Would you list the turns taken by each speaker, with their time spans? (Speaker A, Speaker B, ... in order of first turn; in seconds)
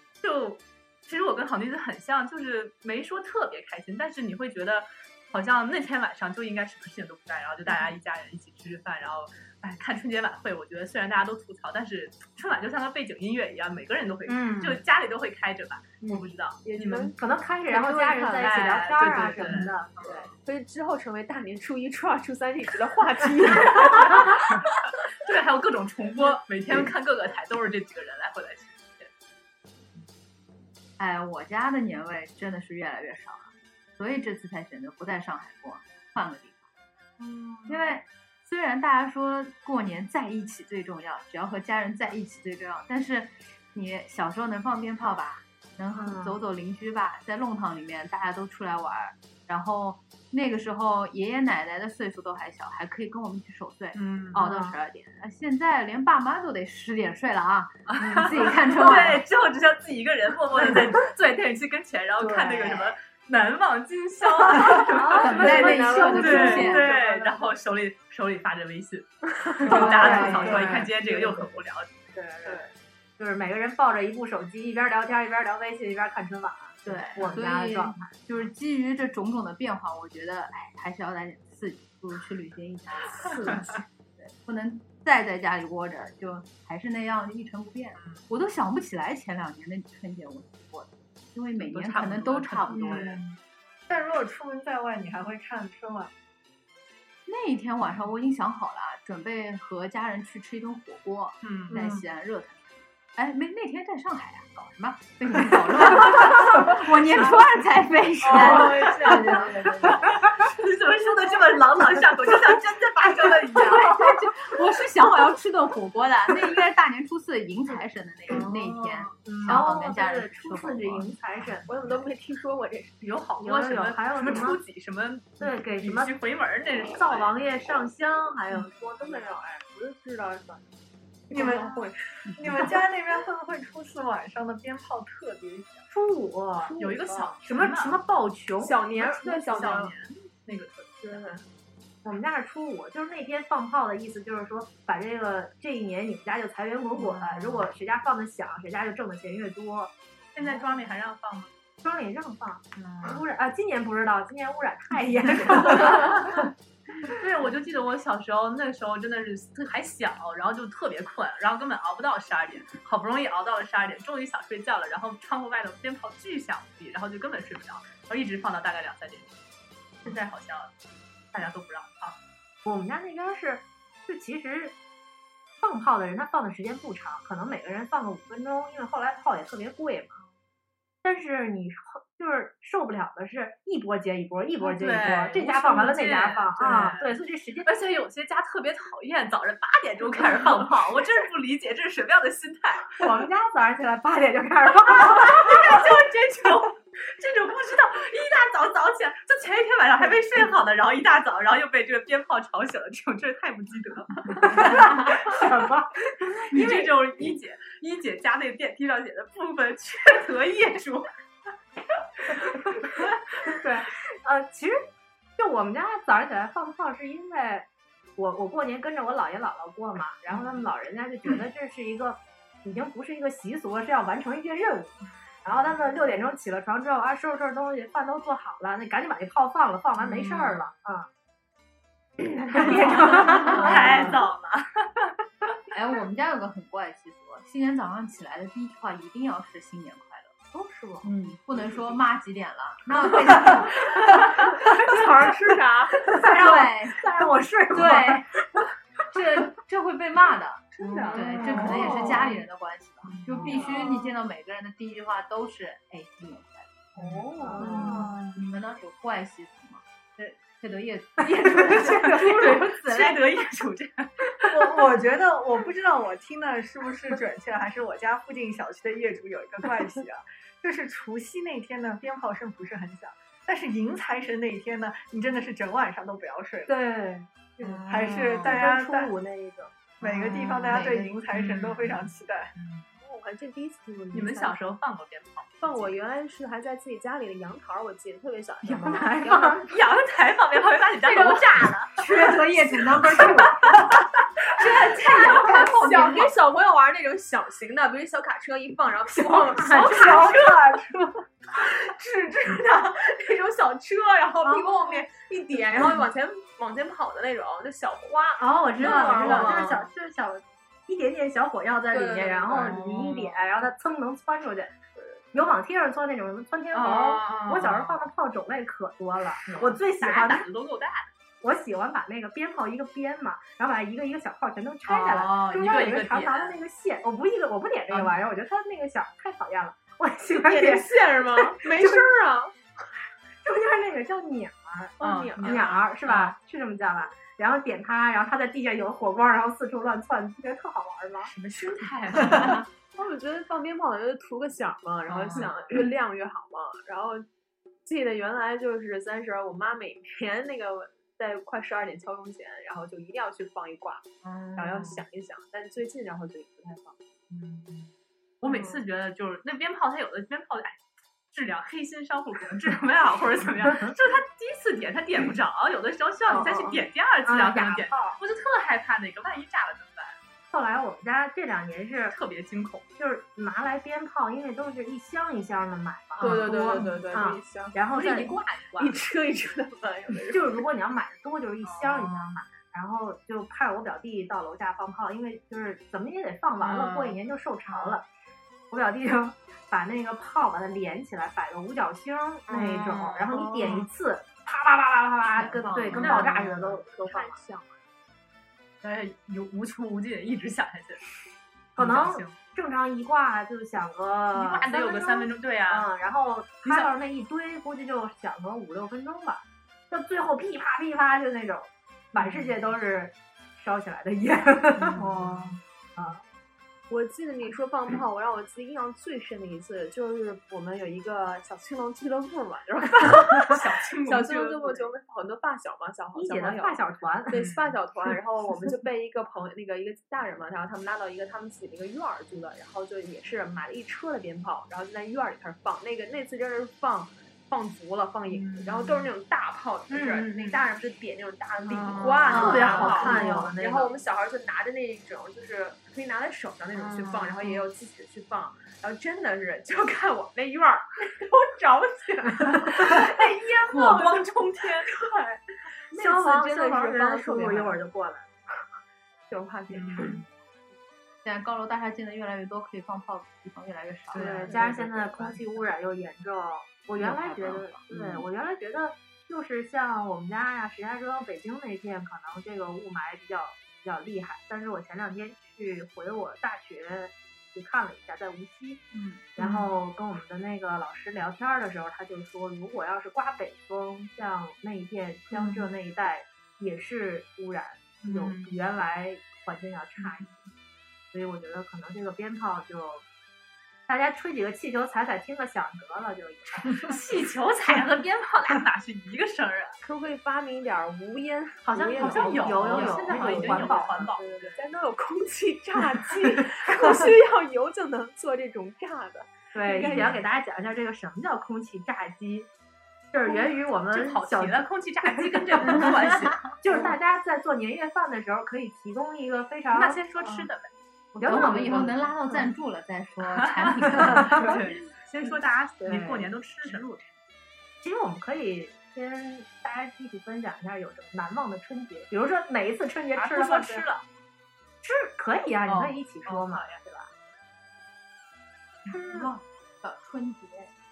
Speaker A: 0.2-17.1, 18.3-20.3, 23.7-24.6, 25.1-29.1, 54.0-54.4, 57.9-72.6, 88.0-88.2, 91.6-93.4, 101.4-101.8, 108.6-109.0, 109.9-114.1, 118.3-119.6, 123.0-127.3, 131.5-131.8, 136.8-138.0, 138.9-141.4, 146.9-147.7, 150.3-151.5, 152.8-153.2, 155.7-156.4, 157.1-169.3, 170.0-170.7, 171.3-172.2, 184.6-193.1, 194.9-205.4, 206.5-211.1, 220.3-220.6, 230.0-230.7, 232.6-235.1, 251.4-252.1, 253.1-253.5, 257.0-258.3, 261.6-264.7, 277.6-278.5, 281.3-282.9, 284.1-286.0, 289.7-291.9, 294.6-295.7, 308.8-309.7, 312.6-313.6, 316.7-318.0, 319.5-321.1, 324.9-326.6, 327.9-328.2, 335.0-336.4, 341.4-342.7, 345.1-345.9, 354.2-355.0, 357.3-360.8, 361.3-370.2, 372.1-372.9, 376.2-377.0, 377.9-379.0, 381.6-382.4, 386.6-387.2, 392.5-393.9, 395.9-396.3, 398.8-401.2, 401.8-402.4, 404.3-405.9, 406.6-406.9, 412.2-412.5, 414.9-415.6, 423.4-424.9, 427.3-427.8, 438.3-439.1, 440.2-440.6, 441.7-443.3, 446.7-447.6, 452.7-455.0, 459.7-460.2, 464.1-464.7, 478.9-479.7, 485.3-485.7, 488.0-488.6, 490.0-490.3, 496.8-499.8, 502.0-504.6, 509.8-510.2, 513.3-516.5, 519.7-520.7, 523.4-526.9, 533.1-534.0, 535.7-536.8
Speaker B: 14.3-14.8, 17.1-20.0, 46.0-46.4, 54.3-54.8, 58.2-58.5, 62.2-62.7, 64.6-67.3, 69.7-70.9, 72.1-78.2, 83.4-83.6, 119.2-122.0, 123.4-124.6, 125.4-126.1, 126.9-129.6, 135.9-136.8, 137.4-138.8, 142.0-149.9, 151.8-156.5, 172.7-174.8, 175.6-180.2, 181.0-187.8, 193.0-195.8, 204.4-206.9, 213.4-214.8, 215.4-231.1, 232.2-234.2, 240.5-241.1, 243.8-245.1, 246.0-248.7, 251.7-252.0, 257.4-258.2, 261.4-262.6, 276.7-279.8, 288.7-289.6, 299.1-300.5, 304.4-304.9, 308.4-314.8, 315.3-320.4, 321.4-332.1, 333.4-341.3, 358.5-358.8, 366.3-368.2, 370.5-372.2, 373.0-378.4, 380.3-388.1, 388.7-397.4, 401.8-415.1, 416.0-416.2, 426.1-427.4, 439.9-440.4, 442.3-444.0, 452.5-452.9, 455.9-458.3, 464.1-478.9, 479.4-490.5, 491.1-493.1, 493.9-497.0, 501.6-504.1, 509.5-512.5, 513.1-520.4, 521.2-522.5, 524.0-524.6, 525.8-526.3, 527.8-533.9, 534.8-537.1, 538.9-539.3
Speaker C: 16.0-17.2, 17.7-24.6, 65.1-67.4, 69.8-70.6, 71.1-71.5, 108.2-110.0, 121.7-123.1, 128.9-130.7, 131.3-132.7, 136.6-137.3, 138.6-139.9, 141.0-141.4, 243.8-246.2, 250.7-252.3, 253.4-253.8, 257.1-258.0, 283.0-284.6, 285.6-289.7, 291.0-292.3, 294.6-300.6, 301.6-309.9, 311.9-312.8, 330.3-332.6, 335.0-335.8, 341.4-347.3, 347.9-357.0, 376.2-377.8, 378.8-380.7, 393.4-393.8, 395.9-397.8, 416.9-454.2, 454.8-455.4, 455.9-457.8, 459.3-460.3, 464.5-465.2, 499.8-510.2
Speaker D: 31.0-36.7, 37.7-59.2, 65.2-66.9, 69.7-70.8, 76.9-93.2, 97.3-110.0, 113.5-121.2, 233.5-234.1, 235.7-240.3, 241.0-243.8, 246.1-247.1, 247.7-248.3, 249.1-256.9, 257.6-263.2, 280.0-281.1, 292.0-293.7, 295.4-296.3, 395.3-396.5, 442.4-443.0, 461.2-464.8, 467.0-468.1, 502.9-503.3, 521.2-524.5, 538.9-540.7
Speaker E: 92.9-93.2, 93.9-96.1, 131.3-131.7, 132.3-135.8, 264.5-276.8, 277.9-279.1, 280.0-282.5, 299.7-301.0